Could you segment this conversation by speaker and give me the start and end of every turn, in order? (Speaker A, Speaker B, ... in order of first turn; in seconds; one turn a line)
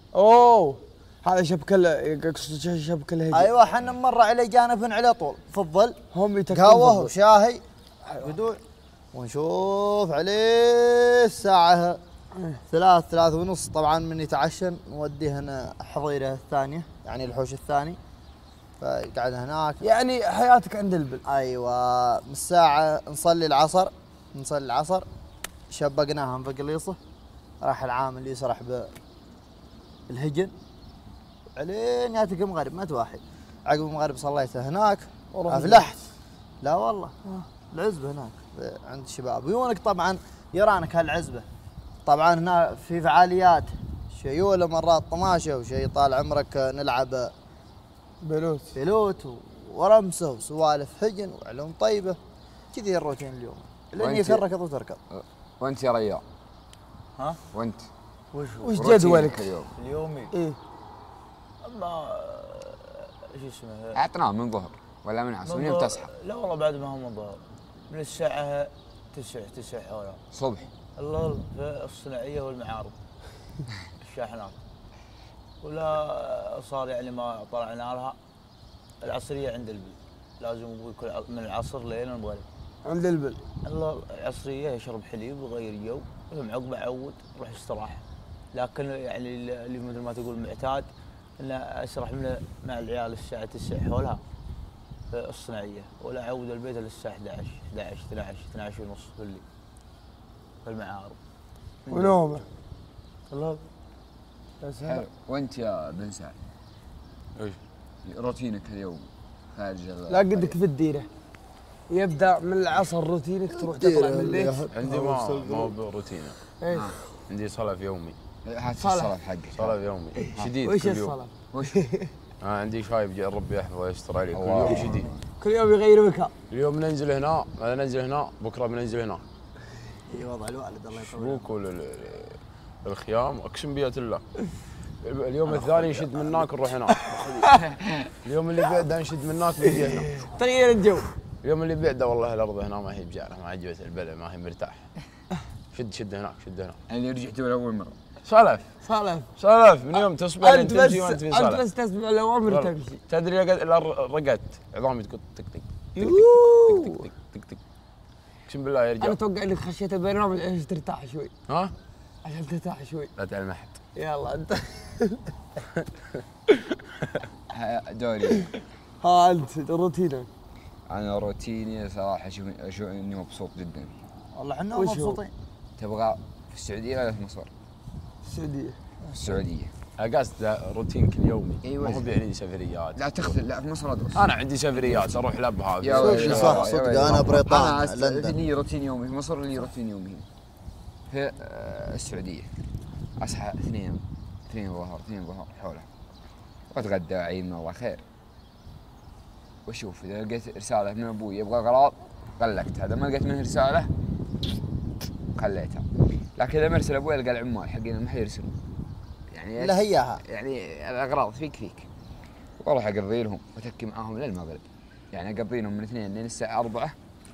Speaker A: 0.1-3.5
Speaker B: 3.3-6.0
Speaker A: 6.1-7.1
Speaker B: 6.5-7.6
Speaker B: 8.2-8.6
Speaker B: 9.1-12.0
Speaker A: 12.3-12.6
Speaker B: 12.7-18.0
Speaker B: 18.8-19.8
Speaker A: 19.8-21.2
Speaker B: 21.2-25.1
Speaker B: 25.7-27.0
Speaker B: 27.6-28.9
Speaker B: 30.1-30.5
Speaker B: 31.6-36.0
Speaker A: 35.3-35.9
Speaker B: 36.6-37.1
Speaker B: 37.7-41.5
Speaker B: 42.0-47.3
Speaker A: 48.2-48.8
Speaker B: 48.8-52.2
Speaker B: 52.7-55.0
Speaker C: 54.0-54.5
Speaker C: 55.1-56.2
Speaker C: 57.5-57.9
Speaker D: 58.3-58.7
Speaker A: 58.6-59.5
Speaker C: 58.7-59.7
Speaker D: 59.7-60.3
Speaker A: 60.3-60.6
Speaker D: 61.6-64.0
Speaker C: 63.9-66.1
Speaker D: 65.5-70.2
Speaker C: 70.3-70.7
Speaker D: 71.0-72.9
Speaker D: 74.0-74.6
Speaker D: 75.6-78.2
Speaker D: 79.0-82.5
Speaker A: 82.8-83.4
Speaker D: 83.6-88.0
Speaker D: 88.5-90.9
Speaker D: 91.4-94.2
Speaker D: 95.1-99.4
Speaker D: 100.6-101.2
Speaker D: 101.9-102.2
Speaker A: 101.9-102.4
Speaker A: 103.3-103.6
Speaker A: 104.6-105.0
Speaker C: 104.8-106.3
Speaker C: 108.0-110.5
Speaker A: 110.1-111.1
Speaker A: 111.9-114.6
Speaker B: 113.5-115.7
Speaker E: 114.7-116.4
Speaker A: 116.6-117.0
Speaker C: 116.7-117.0
Speaker E: 117.3-118.2
Speaker C: 118.4-119.8
Speaker A: 118.8-119.1
Speaker E: 119.5-121.2
Speaker A: 120.2-122.1
Speaker C: 121.5-121.8
Speaker E: 122.4-125.1
Speaker C: 124.3-125.2
Speaker A: 125.4-126.3
Speaker E: 126.5-129.2
Speaker B: 130.1-131.5
Speaker E: 131.0-134.2
Speaker E: 135.0-137.5
Speaker A: 137.1-137.6
Speaker C: 137.8-138.1
Speaker E: 138.2-140.3
Speaker A: 139.7-141.1
Speaker E: 141.4-144.9
Speaker E: 145.7-146.8
Speaker C: 146.9-148.0
Speaker E: 148.2-148.6
Speaker A: 148.8-149.3
Speaker E: 149.4-151.6
Speaker A: 150.0-153.0
Speaker E: 152.5-157.6
Speaker A: 155.9-157.0
Speaker E: 158.5-159.2
Speaker A: 159.0-161.3
Speaker E: 161.5-161.7
Speaker A: 162.2-163.1
Speaker E: 163.2-163.8
Speaker A: 163.9-165.3
Speaker C: 167.5-168.5
Speaker A: 169.0-170.3
Speaker C: 170.9-173.9
Speaker B: 174.3-175.3
Speaker A: 174.8-175.2
Speaker C: 175.8-177.5
Speaker A: 178.2-178.8
Speaker C: 179.2-179.7
Speaker E: 180.0-183.3
Speaker C: 181.6-182.1
Speaker C: 182.9-185.2
Speaker E: 184.1-186.8
Speaker C: 185.8-190.2
Speaker B: 186.0-188.3
Speaker C: 191.1-192.5
Speaker C: 193.2-195.9
Speaker C: 196.7-198.0
Speaker C: 199.7-203.9
Speaker C: 205.3-208.5
Speaker C: 209.3-211.9
Speaker B: 209.6-210.2
Speaker C: 212.6-216.9